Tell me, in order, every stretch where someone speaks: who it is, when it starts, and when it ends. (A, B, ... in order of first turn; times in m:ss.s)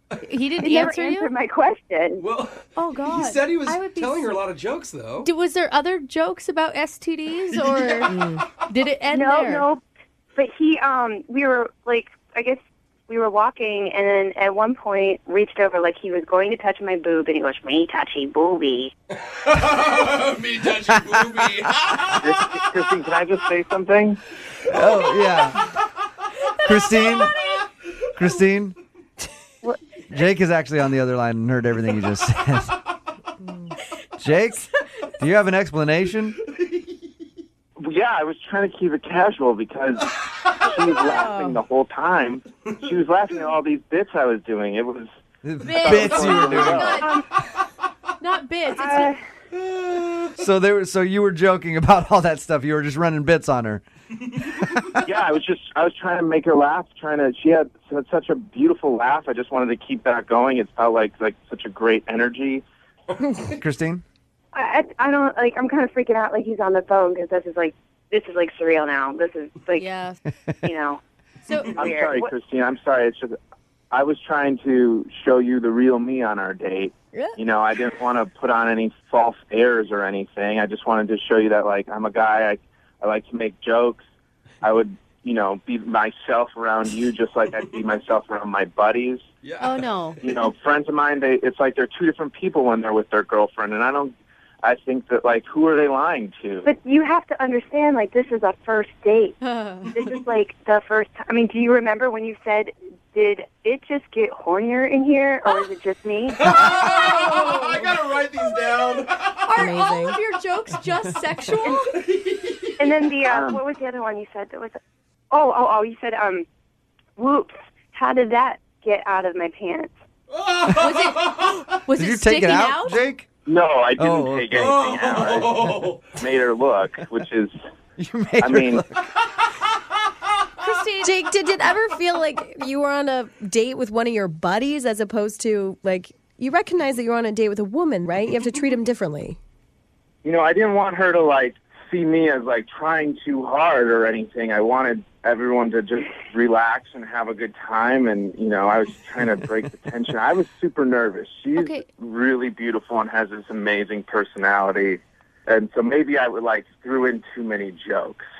0:00.2-0:01.3 A
0:00.6-0:02.2 B
0:02.2-0:05.3 C
0:02.8-0:04.3 A
0:05.2-0:09.7 A
0:07.5-0:08.1 C
0:08.1-0:08.4 D
0:09.1-0:09.8 B
0:10.3-0:18.9 B
0:19.3-0:22.2 C
0:22.2-0:24.2 E
0:24.7-0:25.6 F
0:26.6-0:27.3 F
0:28.1-0:28.8 F
0:30.1-0:32.8 F
0:34.2-0:36.4 F
0:37.8-0:45.1 E
0:41.0-0:41.6 D
0:45.4-0:46.9 F
0:45.6-0:47.2 A
0:45.8-0:47.0 E
0:46.9-0:47.2 B
0:48.2-0:49.2 A
0:48.8-0:49.1 B
0:49.6-0:50.1 C
0:50.4-0:53.8 F
0:55.0-1:02.6 E
1:03.5-1:04.0 F
1:04.5-1:09.9 B
1:09.8-1:10.2 A
1:10.6-1:11.0 B
1:11.4-1:11.8 A
1:11.8-1:12.3 B
1:11.8-1:13.3 E
1:13.9-1:24.0 E
1:24.6-1:29.2 E
1:29.4-1:30.5 C
1:29.6-1:30.2 A
1:30.2-1:36.7 E
1:36.6-1:39.4 B
1:39.4-1:40.0 A
1:39.9-1:46.7 B
1:46.3-1:49.4 C
1:46.9-1:47.7 A
1:49.4-1:52.0 A
1:49.6-1:50.2 D
1:51.9-1:52.8 C
1:52.8-1:54.8 B
1:55.3-1:56.4 B
1:57.2-1:59.9 B
2:00.3-2:01.5 C
2:00.7-2:03.0 A
2:01.9-2:03.3 F
2:03.4-2:07.5 E
2:04.0-2:04.7 F
2:04.5-2:06.2 C
2:08.0-2:09.1 F
2:08.4-2:08.8 E
2:10.6-2:11.2 A
2:11.0-2:19.4 D
2:20.2-2:38.2 E
2:31.6-2:31.8 A